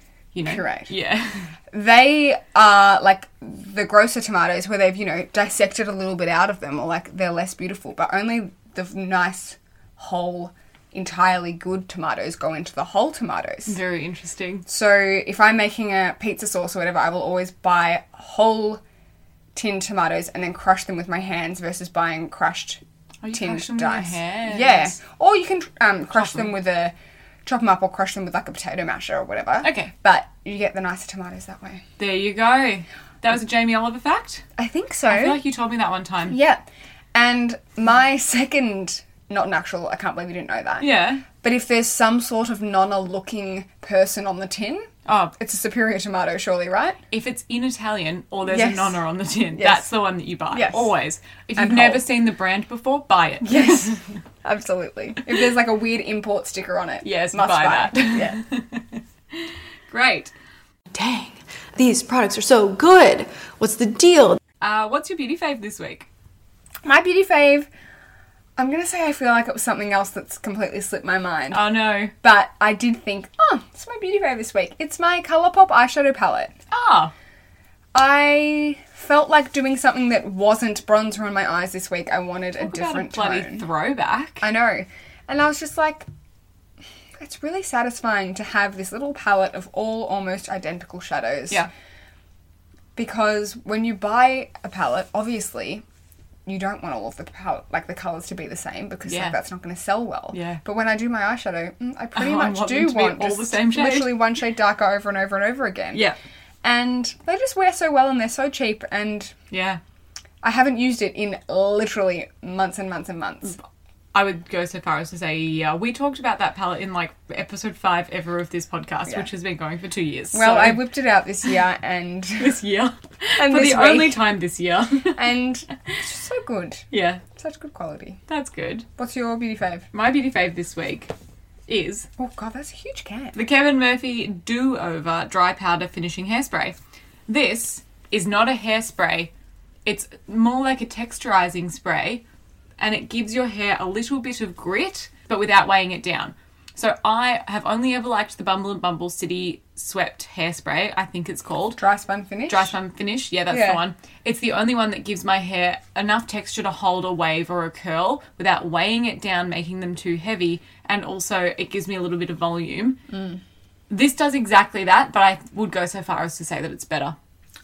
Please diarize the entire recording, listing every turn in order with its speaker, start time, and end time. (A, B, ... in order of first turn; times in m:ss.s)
0:00.3-0:01.5 A
0:00.4-0:00.9 B
0:01.7-0:13.8 B
0:13.7-0:14.6 A
0:14.7-0:18.8 B
0:19.5-0:22.8 B
0:23.2-0:25.0 A
0:23.3-0:26.9 B
0:26.1-0:26.5 A
0:27.4-0:31.8 B
0:29.6-0:29.9 A
0:32.0-0:34.4 A
0:34.6-0:35.4 B
0:35.1-0:36.4 A
0:36.3-0:47.0 B
0:40.8-0:41.2 A
0:45.0-0:45.3 A
0:47.1-0:54.0 A
0:48.5-0:49.0 B
0:49.6-0:49.9 B
0:50.5-0:50.9 B
0:51.6-0:52.0 B
0:53.4-0:58.4 B
0:57.0-1:00.3 A
1:00.9-1:04.4 C
1:04.6-1:06.1 A
1:06.8-1:07.7 B
1:08.6-1:11.6 B
1:11.5-1:12.1 A
1:12.2-1:16.5 B
1:16.7-1:17.1 A
1:17.9-1:23.6 B
1:22.6-1:24.4 A
1:24.4-1:26.0 B
1:27.2-1:31.7 B
1:33.0-1:35.8 B
1:36.4-1:46.0 B
1:39.1-1:39.4 A
1:40.3-1:40.6 A
1:42.1-1:44.2 A
1:46.6-1:49.3 B
1:49.5-1:49.8 A
1:50.4-1:53.6 B
1:54.1-2:00.8 A
2:00.3-2:02.6 B
2:02.4-2:05.3 A
2:03.4-2:04.2 B
2:05.1-2:08.2 B
2:06.9-2:07.2 A
2:08.3-2:08.8 A
2:09.0-2:09.8 B
2:09.9-2:11.1 A
2:11.7-2:12.1 A
2:12.2-2:13.4 B
2:13.3-2:19.3 A
2:19.8-2:22.2 A
2:22.8-2:31.8 A
2:31.8-2:32.7 B
2:32.5-2:43.0 A
2:33.5-2:33.8 B
2:43.1-2:43.4 B
2:43.9-2:47.2 A